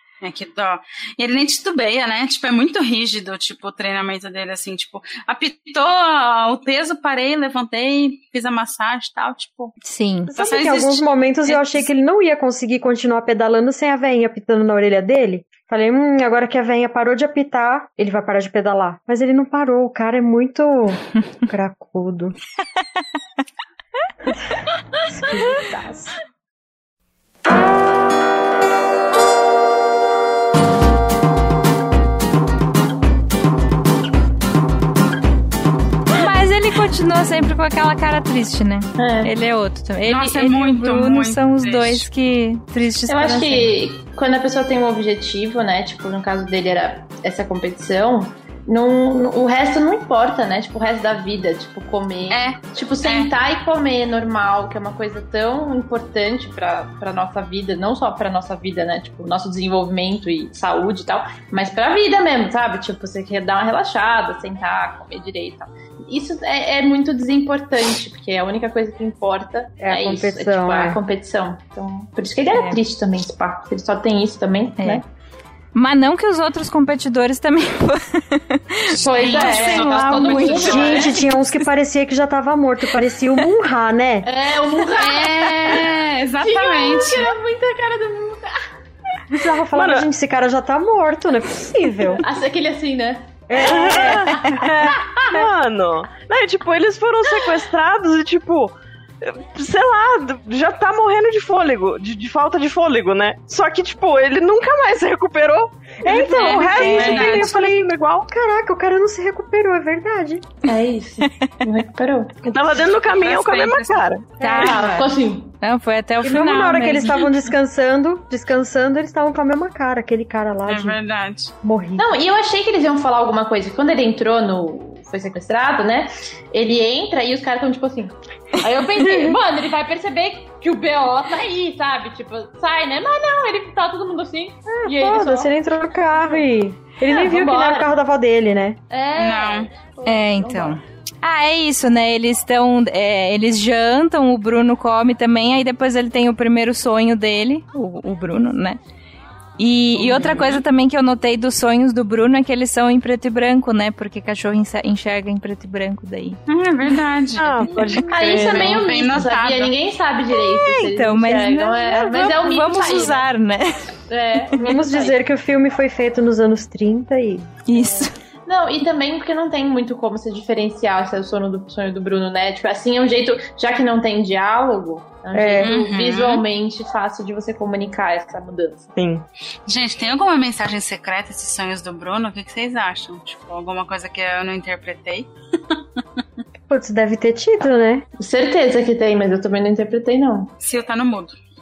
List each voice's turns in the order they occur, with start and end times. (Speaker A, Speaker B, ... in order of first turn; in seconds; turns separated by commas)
Speaker A: 0.2-9.7, Speaker B: 9.8-10.3, Speaker C: 10.3-22.4, Speaker A: 10.3-11.9, Speaker C: 25.1-26.1, Speaker B: 36.1-43.7, Speaker D: 39.0-39.3, Speaker A: 40.1-42.0, Speaker D: 43.1-75.0, Speaker A: 52.3-53.3, Speaker C: 69.8-71.0, Speaker B: 72.5-72.8, Speaker B: 74.8-75.0, Speaker B: 75.7-81.0, Speaker A: 78.9-81.1, Speaker D: 79.0-81.2, Speaker C: 80.6-84.3, Speaker D: 84.2-88.6, Speaker A: 84.9-87.3, Speaker C: 89.3-92.2, Speaker E: 89.7-90.0, Speaker D: 92.1-95.4, Speaker C: 93.5-94.7, Speaker E: 93.6-108.3, Speaker C: 106.0-110.5, Speaker A: 106.3-107.6, Speaker B: 106.4-107.3, Speaker D: 110.6-112.3, Speaker E: 112.4-114.3, Speaker A: 113.0-114.1, Speaker B: 114.4-117.2, Speaker D: 114.4-115.5, Speaker C: 116.2-121.0, Speaker A: 120.7-121.5, Speaker C: 121.6-122.2, Speaker D: 122.0-135.5, Speaker C: 134.7-138.8, Speaker D: 136.1-136.4, Speaker D: 137.0-137.9, Speaker D: 138.9-140.8, Speaker A: 139.2-139.7, Speaker B: 140.1-148.8, Speaker B: 149.6-156.4, Speaker D: 150.0-150.6, Speaker A: 156.5-159.7, Speaker E: 157.4-158.8, Speaker D: 158.1-163.2, Speaker B: 160.3-163.7, Speaker D: 164.1-165.2, Speaker C: 164.6-167.5, Speaker B: 167.7-168.1, Speaker D: 167.7-178.9, Speaker C: 175.3-175.7, Speaker A: 175.6-176.4, Speaker A: 179.7-185.8, Speaker C: 186.7-188.0, Speaker D: 188.2-190.5, Speaker A: 190.6-191.3